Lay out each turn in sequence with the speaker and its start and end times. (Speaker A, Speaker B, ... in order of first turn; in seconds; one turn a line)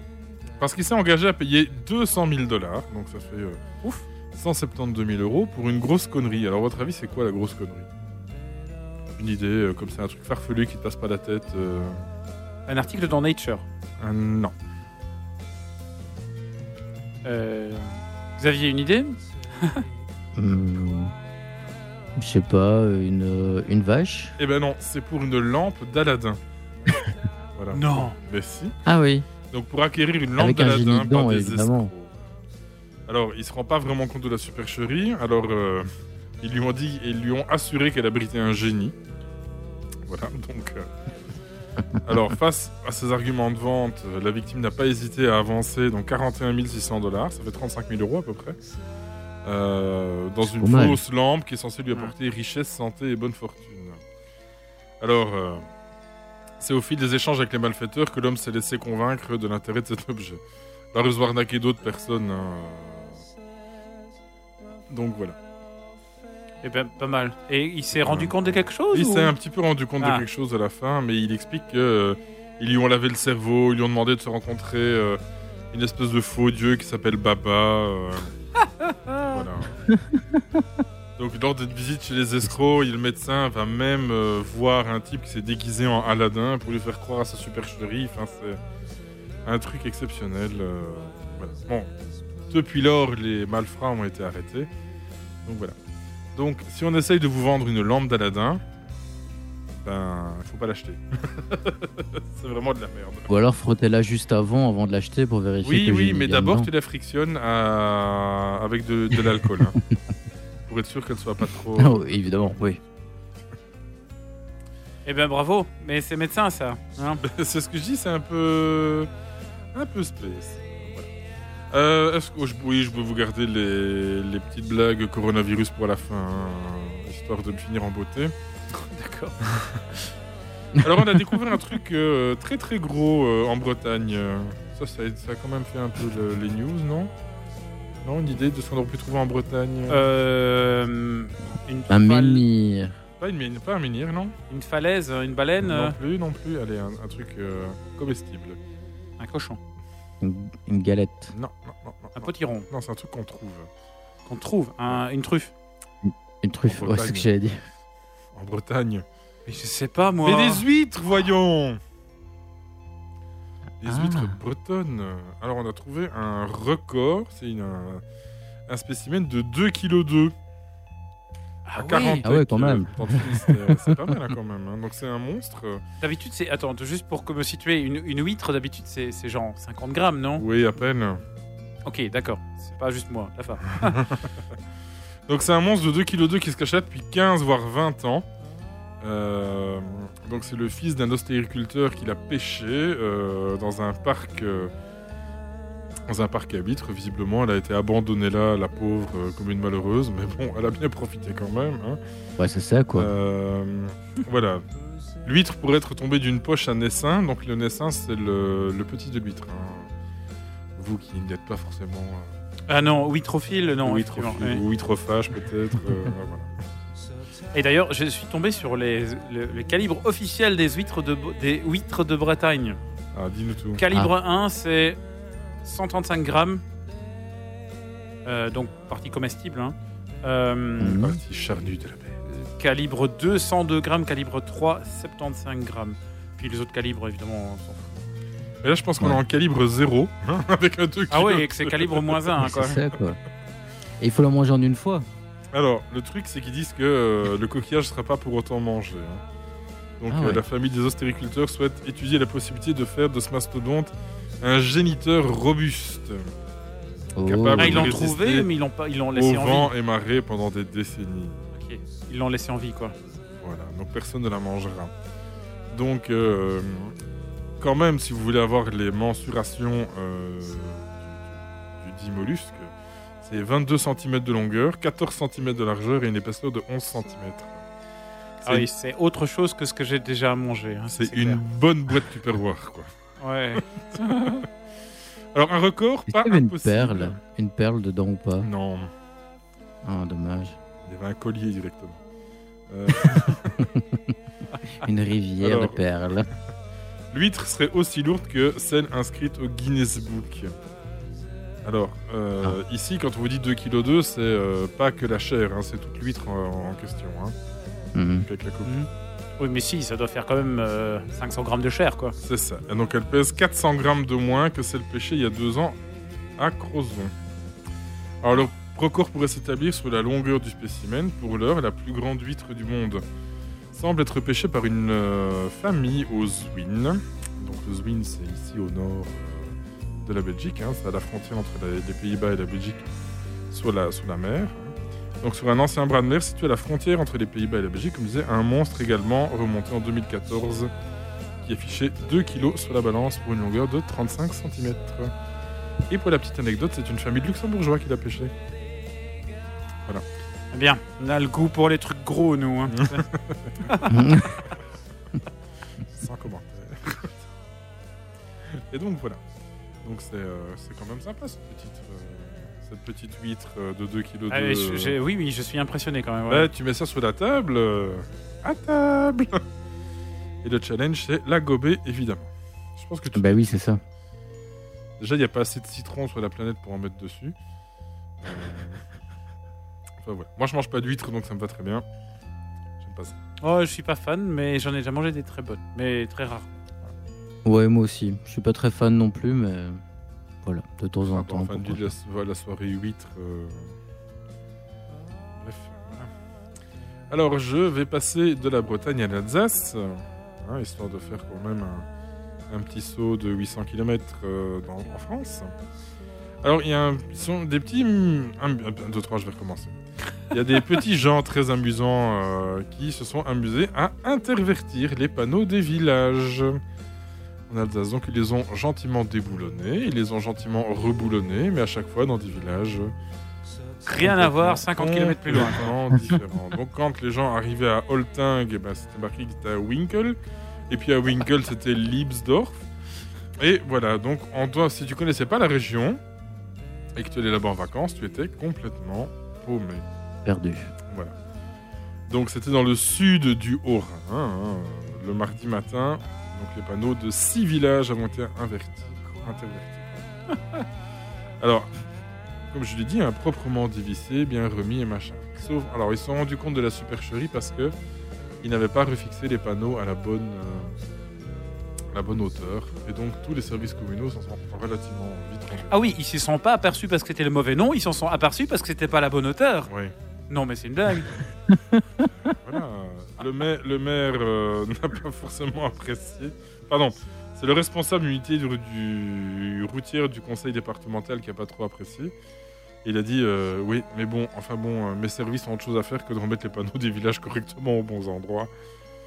Speaker A: 0.6-3.6
Speaker A: 4.3-7.9
Speaker A: 9.2-12.0
Speaker B: 12.7-13.7
Speaker A: 14.0-14.5
Speaker B: 17.2-19.8
Speaker C: 20.3-21.1
Speaker C: 22.1-24.3
Speaker A: 24.4-26.4
Speaker A: 27.6-28.7
Speaker B: 27.7-28.1
Speaker C: 28.8-29.3
Speaker A: 29.5-32.1
Speaker C: 30.4-31.9
Speaker A: 33.1-35.9
Speaker A: 36.4-38.9
Speaker A: 40.0-40.9
Speaker A: 42.0-48.5
Speaker A: 49.4-54.0
Speaker C: 50.6-51.0
Speaker A: 55.0-55.6
Speaker A: 56.6-60.4
Speaker A: 60.9-63.2
Speaker A: 64.9-65.3
Speaker B: 66.6-69.3
Speaker A: 68.0-75.2
Speaker A: 75.7-78.3
Speaker B: 78.8-79.4
Speaker A: 79.3-79.8
Speaker C: 79.9-80.4
Speaker A: 81.2-88.6
Speaker A: 89.5-91.9
Speaker A: 92.5-94.7
Speaker A: 95.5-95.7
Speaker A: 96.3-98.6
Speaker A: 99.8-103.3
Speaker C: 103.3-106.7
Speaker A: 105.6-109.8
Speaker A: 110.7-112.0
Speaker C: 111.8-112.8
Speaker B: 115.0-117.2
Speaker A: 117.2-119.1
Speaker A: 119.7-121.1
Speaker A: 121.7-128.3
Speaker B: 128.7-129.4
Speaker A: 129.5-129.8
Speaker A: 130.8-137.1
Speaker A: 138.0-140.0
Speaker B: 139.9-142.4
Speaker C: 141.9-143.0
Speaker A: 143.2-144.3
Speaker B: 144.5-145.9
Speaker A: 145.6-148.6
Speaker B: 149.2-149.6
Speaker C: 150.2-151.3
Speaker A: 151.3-153.7
Speaker B: 152.1-152.7
Speaker B: 154.2-155.5
Speaker C: 156.0-157.6
Speaker A: 156.7-157.3
Speaker A: 158.3-159.0
Speaker B: 159.4-160.6
Speaker A: 160.2-161.8
Speaker A: 163.8-168.0
Speaker C: 163.8-164.4
Speaker A: 168.7-170.3
Speaker B: 171.7-172.2
Speaker A: 171.7-175.8
Speaker C: 172.2-174.2
Speaker B: 176.0-180.4
Speaker A: 180.4-181.2
Speaker B: 181.8-184.0
Speaker A: 185.3-188.2
Speaker A: 189.0-194.7
Speaker A: 196.1-202.0
Speaker C: 202.4-203.1
Speaker A: 202.9-204.6
Speaker A: 205.2-209.9
Speaker A: 210.8-212.3
Speaker B: 212.7-214.6
Speaker A: 213.8-216.5
Speaker B: 217.5-222.8
Speaker A: 223.1-223.8
Speaker B: 223.8-225.0
Speaker B: 225.6-226.6
Speaker B: 228.2-231.0
Speaker C: 230.8-231.2
Speaker A: 230.9-232.2
Speaker B: 232.3-238.0
Speaker A: 238.6-242.5
Speaker B: 241.1-242.8
Speaker C: 242.4-243.2
Speaker C: 244.0-245.1
Speaker A: 245.5-249.2
Speaker A: 250.0-256.3
Speaker C: 250.1-250.4
Speaker C: 257.1-258.0
Speaker A: 257.2-258.5
Speaker B: 257.6-259.7
Speaker A: 259.1-261.5
Speaker B: 261.5-262.9
Speaker A: 263.4-264.9
Speaker A: 265.7-266.9
Speaker A: 267.6-272.7
Speaker A: 273.2-277.6
Speaker B: 278.4-281.4
Speaker A: 281.0-282.9
Speaker B: 283.2-284.4
Speaker A: 283.6-284.0
Speaker A: 285.3-287.1
Speaker C: 286.1-288.5
Speaker A: 288.4-288.9
Speaker C: 289.8-290.6
Speaker A: 290.9-292.0
Speaker A: 292.7-293.6
Speaker C: 293.6-294.1
Speaker C: 294.8-296.3
Speaker A: 295.4-295.8
Speaker A: 297.1-300.5
Speaker A: 301.6-307.3
Speaker C: 307.9-308.2
Speaker A: 308.2-308.7
Speaker B: 309.4-312.1
Speaker A: 312.2-315.8
Speaker A: 316.4-317.1
Speaker A: 318.2-323.0
Speaker A: 323.7-332.8
Speaker A: 333.5-340.7
Speaker A: 341.4-345.1
Speaker A: 345.9-348.3
Speaker B: 350.5-353.0
Speaker A: 352.7-353.6
Speaker B: 353.7-353.9
Speaker C: 353.9-354.4
Speaker A: 356.0-357.1
Speaker A: 358.7-359.2
Speaker A: 359.8-364.9
Speaker B: 364.3-366.5
Speaker A: 366.3-369.4
Speaker A: 370.4-373.7
Speaker C: 373.1-373.8
Speaker A: 375.0-377.3
Speaker A: 378.2-378.8
Speaker A: 380.0-381.8
Speaker A: 382.8-383.1
Speaker B: 383.4-386.5
Speaker C: 387.4-389.8
Speaker C: 390.4-391.9
Speaker A: 391.1-393.8
Speaker A: 395.3-396.1
Speaker A: 397.1-401.9
Speaker A: 402.5-405.5
Speaker A: 406.4-409.8
Speaker A: 410.3-416.6
Speaker A: 417.5-422.9
Speaker B: 423.8-425.6
Speaker A: 424.0-430.2
Speaker A: 430.7-432.6
Speaker A: 433.4-436.0
Speaker A: 436.9-439.8
Speaker C: 440.2-440.7
Speaker A: 440.9-441.1
Speaker A: 442.1-450.1
Speaker A: 451.4-451.7
Speaker A: 452.5-457.7
Speaker A: 458.4-460.7
Speaker A: 461.9-465.9
Speaker B: 465.7-469.7
Speaker A: 469.7-469.9
Speaker B: 470.3-471.2
Speaker C: 471.5-471.8
Speaker A: 472.3-482.1
Speaker A: 482.8-488.5